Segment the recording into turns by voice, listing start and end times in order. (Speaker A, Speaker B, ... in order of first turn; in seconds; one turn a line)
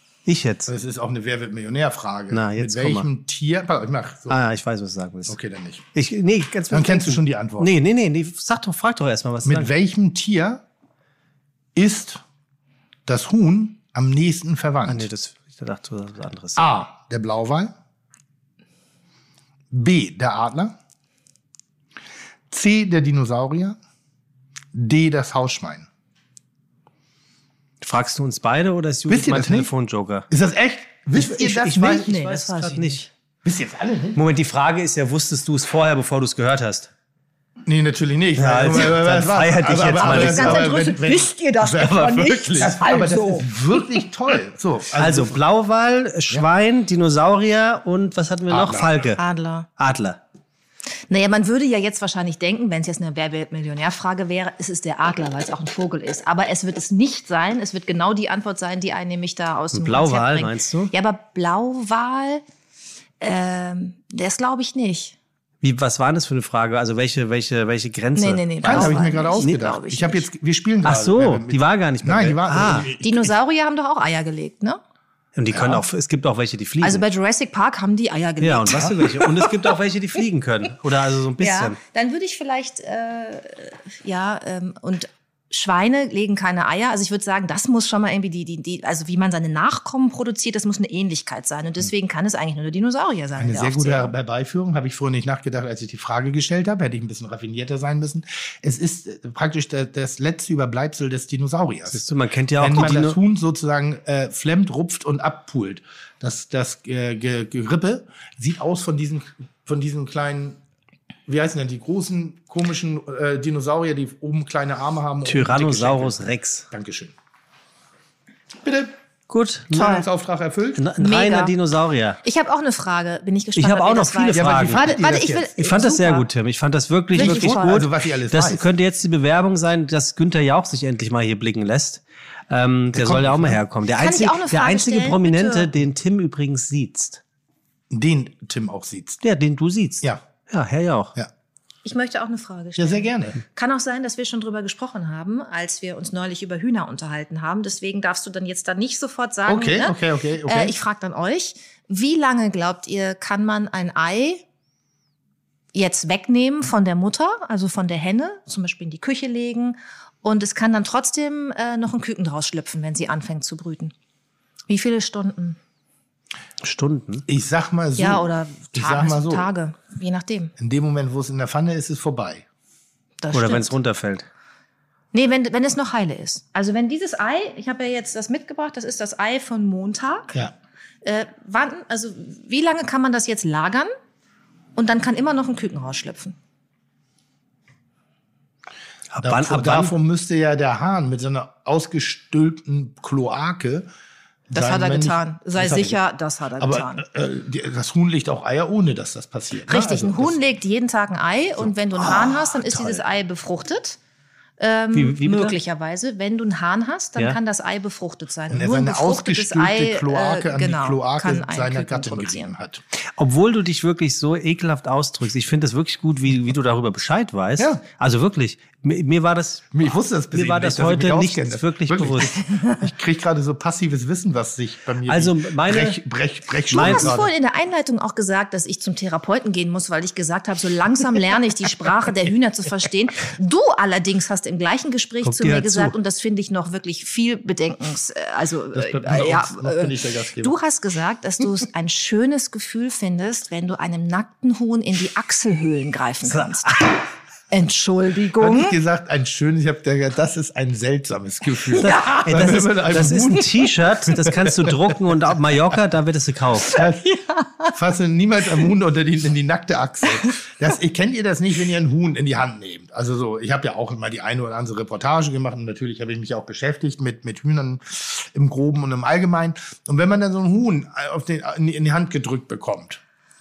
Speaker A: 0.3-0.7
Speaker B: 0.7-4.4
Speaker A: 2.3-3.1
Speaker A: 4.3-5.4
Speaker B: 5.3-5.9
Speaker A: 5.9-9.7
Speaker B: 6.7-7.7
Speaker B: 9.4-10.6
Speaker B: 11.8-12.2
Speaker B: 13.1-15.1
Speaker A: 14.9-16.6
Speaker B: 16.6-17.7
Speaker B: 19.7-20.8
Speaker B: 22.5-23.8
Speaker B: 24.7-25.9
Speaker A: 27.8-30.3
Speaker B: 29.1-29.7
Speaker B: 30.3-32.1
Speaker A: 31.2-33.1
Speaker C: 31.4-33.1
Speaker B: 33.4-34.2
Speaker A: 34.1-36.9
Speaker B: 37.6-45.4
Speaker A: 38.4-40.7
Speaker C: 39.9-44.0
Speaker A: 45.0-49.2
Speaker B: 48.5-49.0
Speaker C: 49.2-49.7
Speaker A: 49.8-50.2
Speaker C: 51.1-62.4
Speaker A: 59.7-60.9
Speaker C: 63.2-65.2
Speaker A: 65.6-69.7
Speaker C: 68.2-70.3
Speaker B: 68.6-73.3
Speaker A: 70.8-72.9
Speaker C: 73.0-74.8
Speaker A: 75.4-77.0
Speaker B: 75.5-75.8
Speaker C: 76.8-79.8
Speaker A: 78.4-81.8
Speaker C: 81.4-94.1
Speaker B: 93.4-102.0
Speaker A: 101.9-103.2
Speaker B: 102.6-110.6
Speaker B: 111.3-117.1
Speaker A: 115.2-116.7
Speaker B: 118.6-118.9
Speaker A: 119.3-120.0
Speaker B: 119.7-120.9
Speaker A: 120.8-122.2
Speaker C: 121.0-121.5
Speaker C: 122.2-126.3
Speaker A: 123.6-124.9
Speaker B: 124.3-125.5
Speaker A: 125.6-137.2
Speaker C: 127.1-127.9
Speaker B: 127.2-128.7
Speaker B: 132.9-133.6
Speaker C: 133.9-135.7
Speaker B: 137.9-139.2
Speaker A: 139.2-141.2
Speaker C: 141.8-154.4
Speaker B: 142.8-143.4
Speaker B: 149.5-150.8
Speaker C: 155.7-163.9
Speaker C: 164.7-165.6
Speaker A: 166.6-167.3
Speaker B: 167.3-169.5
Speaker C: 168.0-170.5
Speaker B: 170.6-172.4
Speaker C: 173.2-173.8
Speaker A: 173.3-174.3
Speaker C: 175.1-180.3
Speaker C: 181.0-183.9
Speaker C: 184.8-186.4
Speaker A: 189.1-189.9
Speaker B: 189.2-193.9
Speaker B: 194.5-196.0
Speaker C: 194.5-197.0
Speaker B: 196.6-200.4
Speaker C: 199.7-204.0
Speaker B: 201.6-203.0
Speaker C: 204.6-212.5
Speaker A: 204.9-205.6
Speaker B: 208.5-212.8
Speaker A: 213.2-219.7
Speaker B: 219.7-227.3
Speaker A: 220.3-222.4
Speaker A: 225.1-226.0
Speaker A: 226.7-227.2
Speaker C: 226.7-246.8
Speaker A: 235.2-236.0
Speaker B: 238.7-240.6
Speaker A: 246.3-246.7
Speaker C: 247.5-248.8
Speaker B: 248.4-253.5
Speaker C: 251.7-252.6
Speaker A: 251.8-256.8
Speaker B: 254.1-254.9
Speaker B: 256.7-257.1
Speaker C: 257.1-257.7
Speaker B: 257.7-273.0